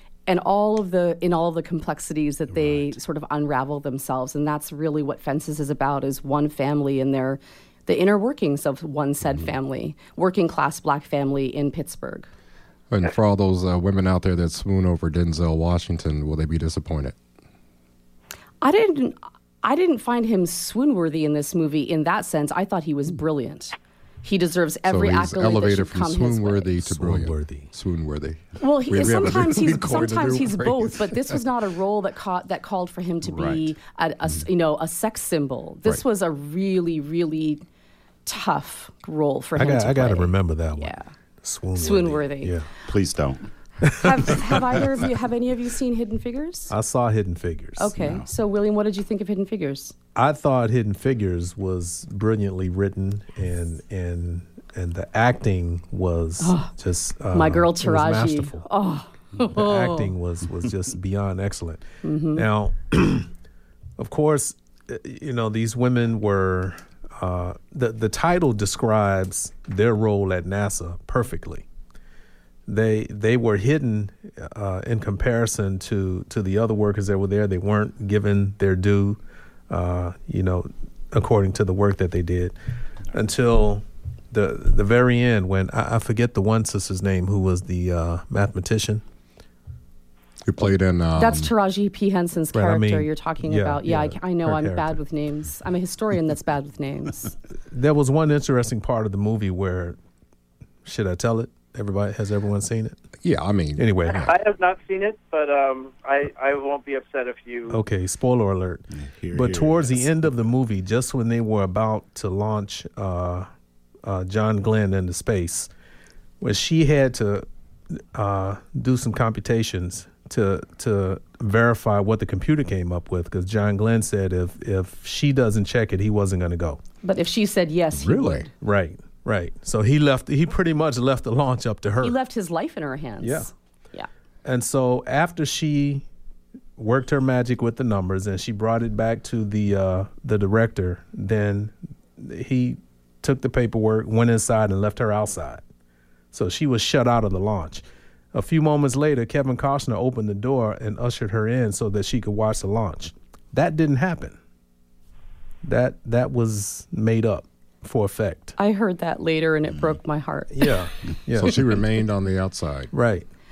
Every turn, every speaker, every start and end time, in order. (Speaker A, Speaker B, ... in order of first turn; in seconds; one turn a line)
Speaker A: 0.3-12.3
Speaker B: 2.6-2.8
Speaker C: 12.9-17.2
Speaker A: 18.6-26.9
Speaker C: 24.9-31.4
Speaker D: 26.9-27.7
Speaker A: 28.6-37.6
Speaker C: 33.2-33.6
Speaker A: 38.2-41.1
Speaker D: 39.6-42.7
Speaker A: 41.8-42.5
Speaker B: 42.9-43.5
Speaker D: 43.8-44.6
Speaker A: 44.0-46.7
Speaker D: 46.7-47.9
Speaker A: 47.8-49.9
Speaker B: 47.9-48.3
Speaker D: 50.1-58.7
Speaker A: 56.4-56.7
Speaker A: 57.3-60.1
Speaker D: 59.5-61.8
Speaker A: 62.0-62.5
Speaker D: 62.3-63.3
Speaker D: 64.0-71.6
Speaker D: 72.7-82.5
Speaker D: 83.1-89.0
Speaker C: 90.5-91.5
Speaker A: 91.2-97.3
Speaker D: 92.5-94.9
Speaker D: 97.7-100.0
Speaker D: 100.8-103.0
Speaker C: 103.2-104.3
Speaker D: 103.8-104.2
Speaker E: 104.2-107.8
Speaker D: 107.7-113.5
Speaker B: 108.9-110.1
Speaker D: 114.0-115.7
Speaker D: 116.4-117.5
Speaker D: 118.0-126.8
Speaker A: 127.0-128.5
Speaker C: 128.0-128.5
Speaker D: 128.6-132.2
Speaker A: 132.0-134.1
Speaker D: 133.2-133.5
Speaker D: 134.4-136.1
Speaker D: 136.8-145.6
Speaker D: 146.3-154.4
Speaker D: 155.6-158.6
Speaker A: 158.6-160.8
Speaker D: 160.5-161.6
Speaker C: 161.3-162.9
Speaker D: 162.9-163.3